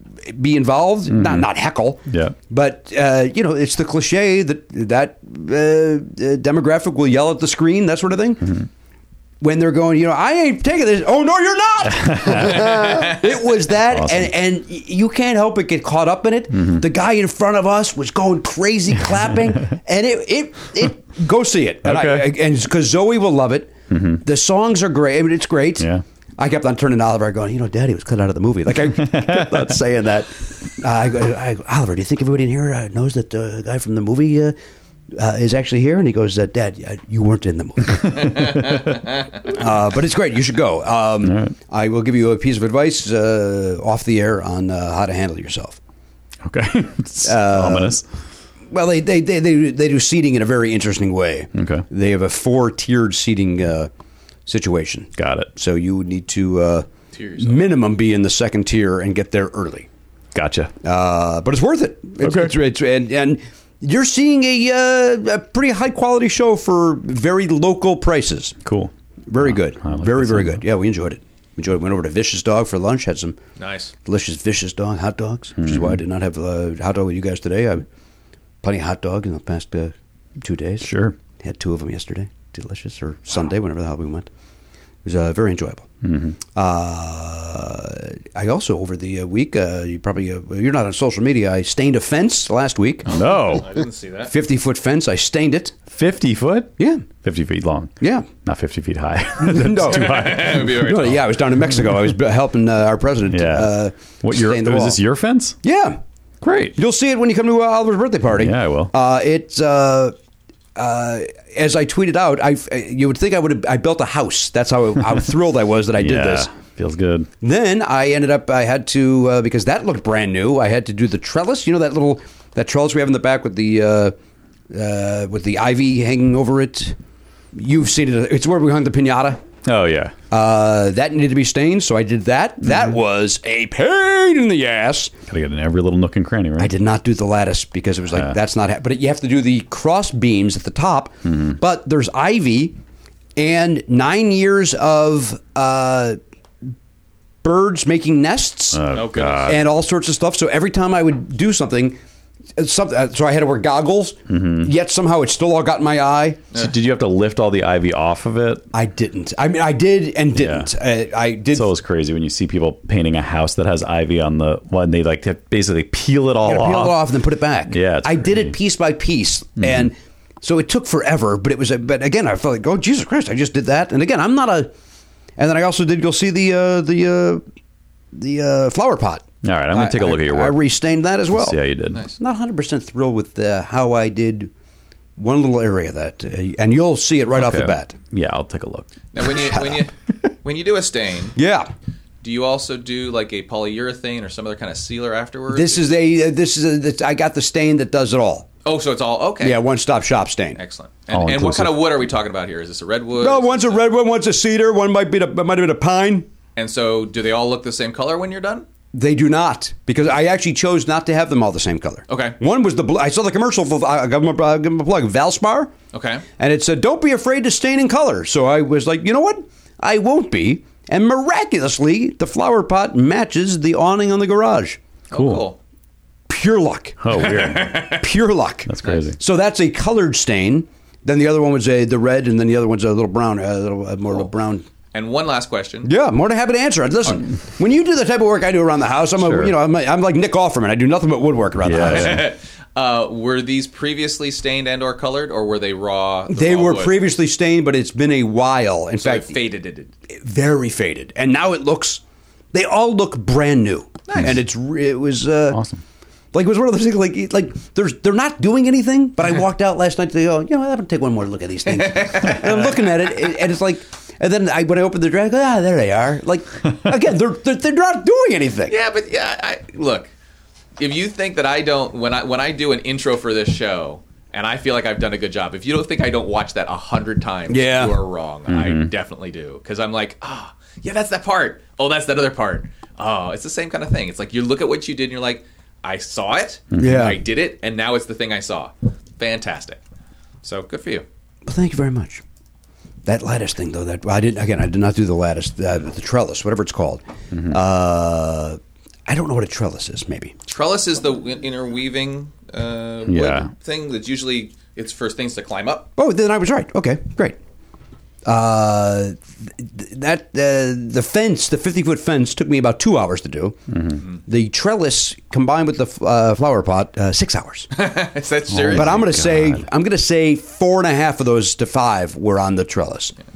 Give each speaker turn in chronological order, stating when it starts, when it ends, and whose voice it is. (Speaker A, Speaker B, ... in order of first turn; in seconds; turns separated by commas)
Speaker A: 0.2-8.7, Speaker B: 1.1-1.5, Speaker B: 2.1-2.4, Speaker A: 9.4-34.6, Speaker B: 11.9-13.2, Speaker B: 13.9-14.3, Speaker B: 16.6-16.8, Speaker B: 21.8-22.3, Speaker B: 23.9-24.2, Speaker B: 25.8-26.0, Speaker B: 29.0-29.8, Speaker A: 35.1-38.8, Speaker A: 39.4-45.8, Speaker B: 41.2-41.5, Speaker B: 46.4-48.0, Speaker A: 47.2-48.0, Speaker A: 48.7-53.9, Speaker B: 51.5-51.9, Speaker A: 54.5-56.9, Speaker B: 55.2-55.5, Speaker C: 57.1-57.6, Speaker A: 57.4-59.9, Speaker B: 60.3-60.7, Speaker A: 60.8-68.6, Speaker B: 62.2-62.5, Speaker B: 68.7-70.6, Speaker A: 69.3-73.4, Speaker C: 73.6-73.9, Speaker A: 74.0-77.9, Speaker B: 75.6-76.0, Speaker A: 78.6-84.3, Speaker B: 80.8-81.2, Speaker A: 85.0-85.9, Speaker B: 86.0-86.4, Speaker A: 86.5-93.1, Speaker B: 93.1-93.7, Speaker C: 93.1-94.3, Speaker A: 94.3-95.7, Speaker B: 95.9-100.8, Speaker A: 96.8-97.0, Speaker A: 98.0-98.3, Speaker A: 99.4-105.0, Speaker C: 99.9-101.3, Speaker B: 103.3-105.6, Speaker A: 105.6-106.0, Speaker B: 106.4-106.8, Speaker A: 106.8-110.2, Speaker B: 108.3-108.9, Speaker A: 110.8-116.5, Speaker B: 116.0-117.3, Speaker A: 117.4-124.2, Speaker A: 124.7-127.0, Speaker A: 127.5-129.4, Speaker B: 129.7-130.1, Speaker A: 130.3-135.1, Speaker B: 135.3-136.7, Speaker A: 136.6-142.8, Speaker B: 141.3-141.6, Speaker A: 143.4-146.2, Speaker A: 147.4-148.8, Speaker B: 148.7-149.6, Speaker C: 148.9-149.6, Speaker A: 149.5-152.0, Speaker A: 152.6-156.4, Speaker B: 154.3-154.7, Speaker B: 156.5-158.7, Speaker A: 158.7-161.7, Speaker B: 160.4-160.7, Speaker B: 161.5-167.0, Speaker A: 166.4-174.7, Speaker B: 167.7-168.5, Speaker B: 169.6-169.9, Speaker A: 175.4-177.4, Speaker A: 178.1-181.6, Speaker B: 179.4-180.6, Speaker B: 181.3-182.0, Speaker A: 182.2-184.5, Speaker A: 185.2-187.9, Speaker B: 187.3-188.9, Speaker C: 189.1-191.3, Speaker A: 191.3-191.7, Speaker C: 192.2-195.9, Speaker A: 195.5-198.5, Speaker C: 198.7-199.6, Speaker A: 199.4-200.6, Speaker C: 200.6-203.8, Speaker B: 201.1-201.9, Speaker A: 203.2-206.3, Speaker C: 206.6-208.7, Speaker A: 208.9-215.7, Speaker C: 212.1-212.4, Speaker C: 215.9-216.2, Speaker A: 216.4-224.8, Speaker C: 225.1-225.6, Speaker B: 225.1-225.5, Speaker A: 226.3-234.7, Speaker B: 227.0-227.9, Speaker C: 227.2-228.0, Speaker B: 228.7-229.2, Speaker C: 234.9-235.9, Speaker A: 235.8-242.3, Speaker B: 239.2-239.6, Speaker B: 241.6-242.3, Speaker C: 241.8-247.1, Speaker A: 246.3-249.4, Speaker C: 249.0-249.9, Speaker A: 250.1-252.0, Speaker A: 252.5-255.6, Speaker B: 255.5-255.8, Speaker A: 256.3-268.8, Speaker C: 261.8-262.7, Speaker C: 268.7-270.1, Speaker C: 270.8-289.8, Speaker A: 277.5-278.0, Speaker B: 278.5-278.9, Speaker A: 286.8-287.2, Speaker C: 290.4-291.1, Speaker A: 291.5-292.2, Speaker A: 293.1-300.3, Speaker C: 300.5-305.9, Speaker B: 303.1-303.5, Speaker A: 306.0-307.4, Speaker A: 308.2-313.6, Speaker B: 313.7-314.0, Speaker A: 314.3-317.7, Speaker C: 317.7-319.1, Speaker B: 318.5-319.6, Speaker A: 318.7-323.1